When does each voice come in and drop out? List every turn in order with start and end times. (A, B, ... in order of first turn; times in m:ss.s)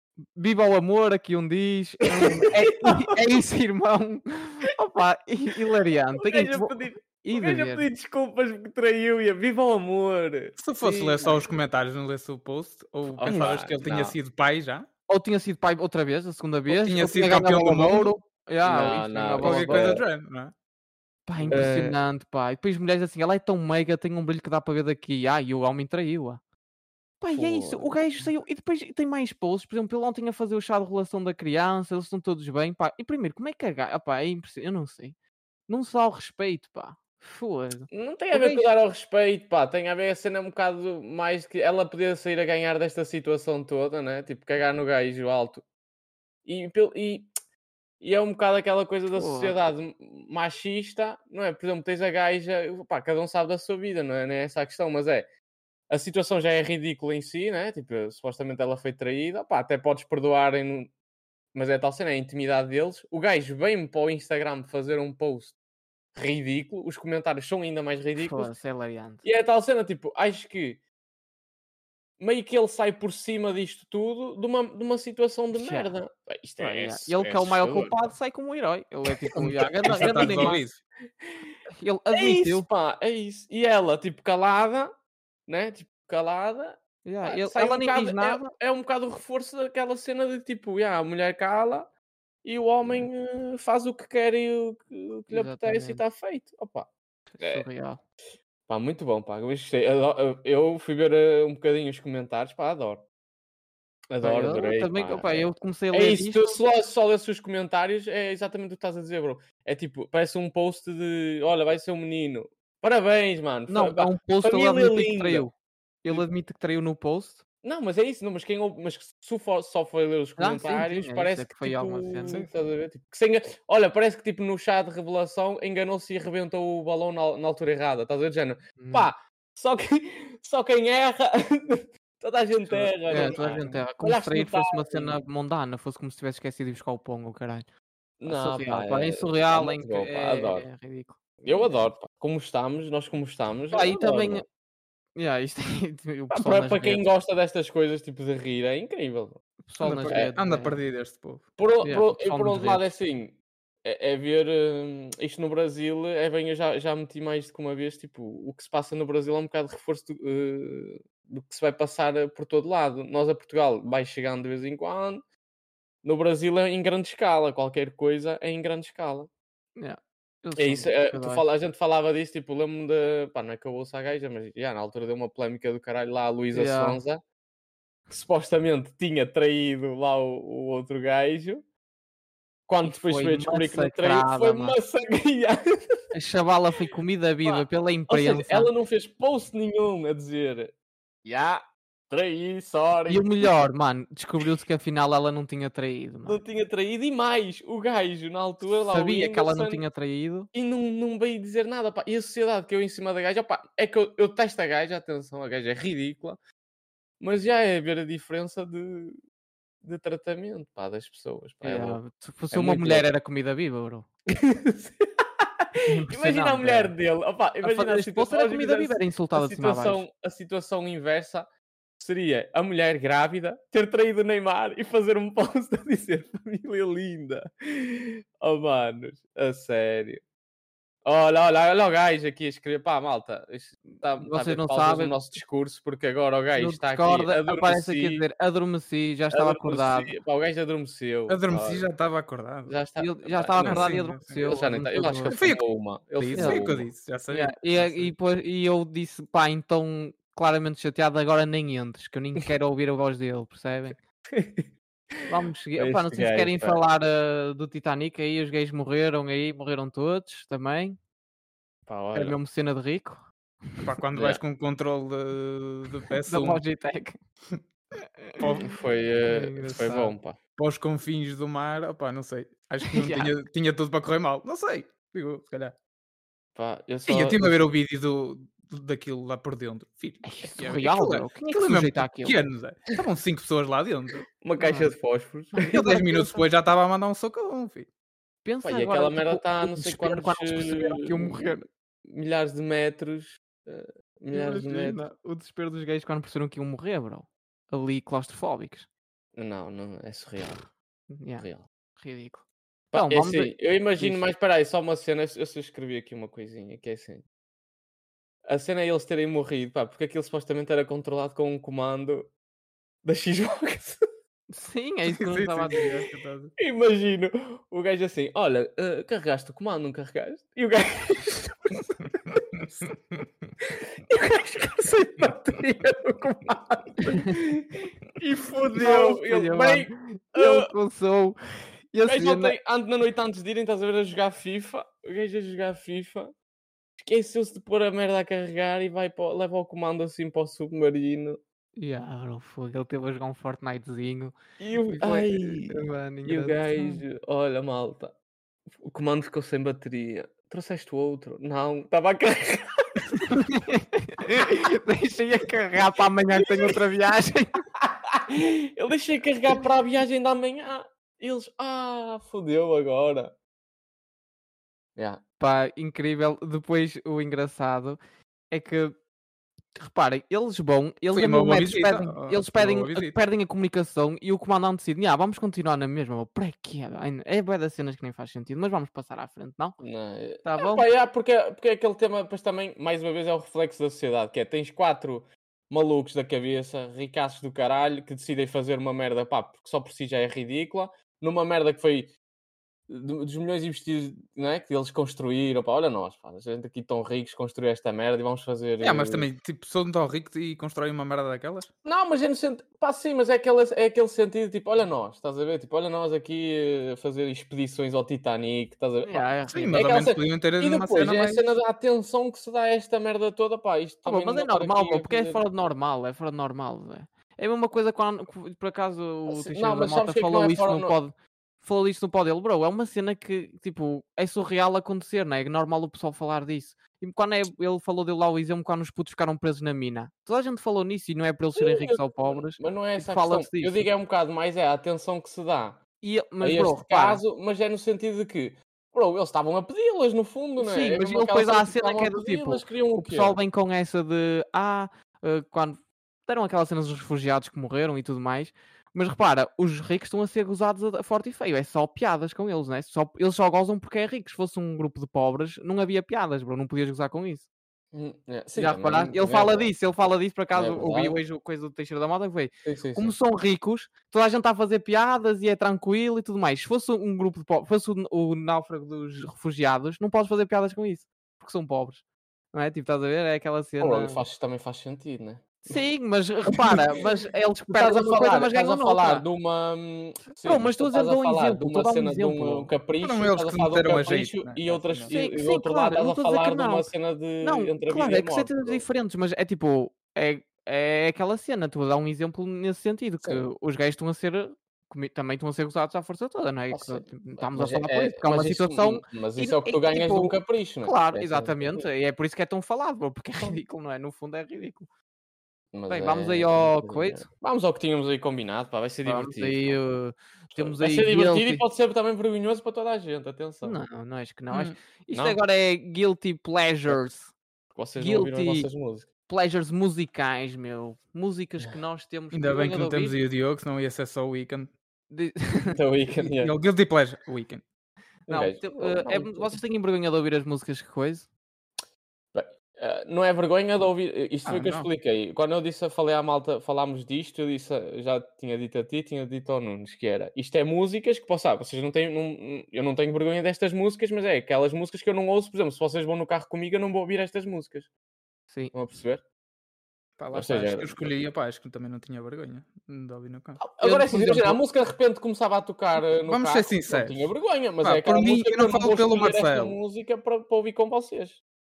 0:00.3-0:07.9 A
0:02.3-0:03.2 B
0:06.1-0:11.4 B
0:10.6-0:14.9 C
0:13.2-0:14.2 B
0:15.1-0:20.0 A
0:16.7-0:18.1 C
0:18.6-0:20.0 B
0:19.4-0:20.5 C
0:21.2-0:26.4 A
0:21.5-0:22.0 B
0:27.2-0:35.1 A
0:27.3-0:28.2 B
0:35.7-0:38.7 A
0:37.9-0:45.6 B
0:46.4-0:47.3 B
0:48.0-0:55.3 B
0:49.1-0:49.6 A
0:55.9-1:00.9 B
1:01.5-1:05.6 B
1:06.1-1:08.5 B
1:08.2-1:09.2 A
1:09.2-1:10.8 B
1:12.2-1:17.9 B
1:15.5-1:15.9 A
1:16.6-1:20.6 A
1:19.3-1:20.6 B
1:19.4-1:20.8 C
1:21.7-1:22.6 A
1:22.1-1:24.9 B
1:25.5-1:31.9 B
1:27.0-1:28.5 A
1:32.4-1:36.9 B
1:35.3-1:36.0 A
1:37.3-1:38.0 A
1:37.4-1:37.6 B
1:38.7-1:43.0 B
1:44.1-1:55.4 B
1:44.2-1:46.6 A
1:53.7-1:55.5 A
1:56.0-1:57.4 A
1:57.6-2:15.2 B
2:00.4-2:02.4 A
2:08.8-2:09.1 A
2:12.7-2:13.4 C
2:13.1-2:17.6 A
2:18.2-2:20.6 B
2:18.2-2:21.7 A
2:21.4-2:24.4 B
2:23.7-2:24.4 A
2:25.2-2:27.1 A
2:26.3-2:29.4 B
2:29.7-2:30.8 A
2:29.8-2:31.4 C
2:31.6-2:45.2 B
2:31.8-2:32.9 A
2:46.0-2:49.3 B
2:49.8-2:51.4 A
2:50.6-2:57.2 B
2:56.5-2:57.0 A
2:58.1-3:01.6 B
3:02.7-3:05.6 B
3:02.8-3:04.8 A
3:06.1-3:08.7 A
3:07.4-3:10.7 B
3:11.2-3:13.3 B
3:13.1-3:16.4 A
3:16.2-3:19.8 B
3:18.9-3:20.5 A
3:20.5-3:26.4 B
3:27.2-3:29.2 B
3:29.8-3:32.0 B
3:31.6-3:34.1 A
3:32.5-3:33.1 B
3:34.3-3:50.2 B
3:36.0-3:36.9 A
3:37.6-3:40.0 A
3:51.0-3:58.2 B
3:54.2-3:55.2 A
3:56.5-4:00.1 A
3:59.3-4:01.8 B
4:01.3-4:02.7 C
4:02.7-4:06.9 B
4:03.0-4:05.5 A
4:03.6-4:04.5 C
4:05.3-4:05.6 C
4:06.2-4:08.1 C
4:06.3-4:06.6 A
4:07.3-4:14.0 A
4:14.3-4:15.2 B
4:15.2-4:21.0 A
4:15.8-4:16.8 B
4:21.9-4:22.4 B
4:22.1-4:23.8 A
4:23.8-4:26.6 C
4:24.1-4:24.4 B
4:26.3-4:27.2 A
4:28.4-4:28.7 C
4:28.6-4:30.4 B
4:29.3-4:30.1 A
4:30.6-4:35.7 C
4:32.8-4:33.3 A
4:36.5-4:37.5 B
4:37.1-4:44.3 C
4:40.2-4:42.4 A
4:44.4-4:45.8 B
4:44.6-4:44.9 A
4:45.5-4:46.4 A
4:45.6-4:47.9 C
4:48.4-4:51.6 A
4:48.6-4:55.0 B
4:54.3-4:58.9 A
4:59.4-5:00.6 B
5:01.1-5:01.4 A
5:01.4-5:01.6 B
5:02.0-5:04.2 A
5:02.9-5:07.2 B
5:08.5-5:12.3 B
5:13.0-5:14.0 B
5:14.5-5:15.8 A
5:15.2-5:16.5 C
5:16.6-5:22.6 B
5:22.9-5:23.2 C
5:23.7-5:30.7 B
5:27.1-5:27.4 A
5:28.7-5:31.4 A
5:31.9-5:32.6 A
5:32.0-5:36.3 B
5:37.0-5:41.4 B
5:41.8-5:47.0 A
5:44.6-5:48.2 B
5:48.7-5:53.2 B
5:53.3-5:57.5 A
5:56.4-5:56.8 B
5:57.8-6:03.4 B
6:05.0-6:05.2 B
6:05.4-6:08.0 A
6:08.5-6:08.9 A
6:09.7-6:19.8 A
6:11.1-6:13.2 C
6:19.8-6:32.1 B
6:20.4-6:20.9 A
6:32.9-6:39.3 B
6:38.8-6:41.7 C
6:41.8-6:55.4 B
6:49.0-6:49.8 A
6:49.5-6:51.5 C
6:54.0-7:13.9 A
6:59.3-7:00.9 B
7:11.6-7:15.8 B
7:16.0-7:17.2 A
7:16.4-7:23.4 B
7:20.6-7:37.5 A
7:37.9-7:39.7 B
7:38.5-7:54.2 A
7:40.5-7:41.2 B
7:42.6-7:43.1 B
7:53.8-7:55.8 B
7:55.6-7:59.2 A
7:57.7-8:08.8 B
8:00.4-8:02.7 A
8:03.0-8:05.2 C
8:05.1-8:24.9 A
8:16.7-8:21.9 B
8:25.7-8:29.8 B
8:25.9-8:27.3 A
8:29.0-8:31.6 A
8:30.5-8:33.8 B
8:33.6-8:37.3 A
8:34.5-8:34.8 C
8:35.1-8:35.4 B
8:37.7-8:39.1 B
8:38.0-8:38.7 A
8:39.3-8:43.2 A
8:42.3-8:44.7 C
8:45.1-8:45.8 A
8:45.7-8:46.5 B
8:46.4-8:47.6 C
8:48.3-8:51.3 A
8:48.3-8:49.6 B
8:52.3-9:07.9 B
8:54.4-8:54.9 C
9:08.7-9:09.2 B
9:10.2-9:13.7 C
9:10.3-9:11.1 B
9:13.6-9:21.4 B
9:13.8-9:14.6 A
9:16.2-9:17.3 C
9:17.8-9:19.8 C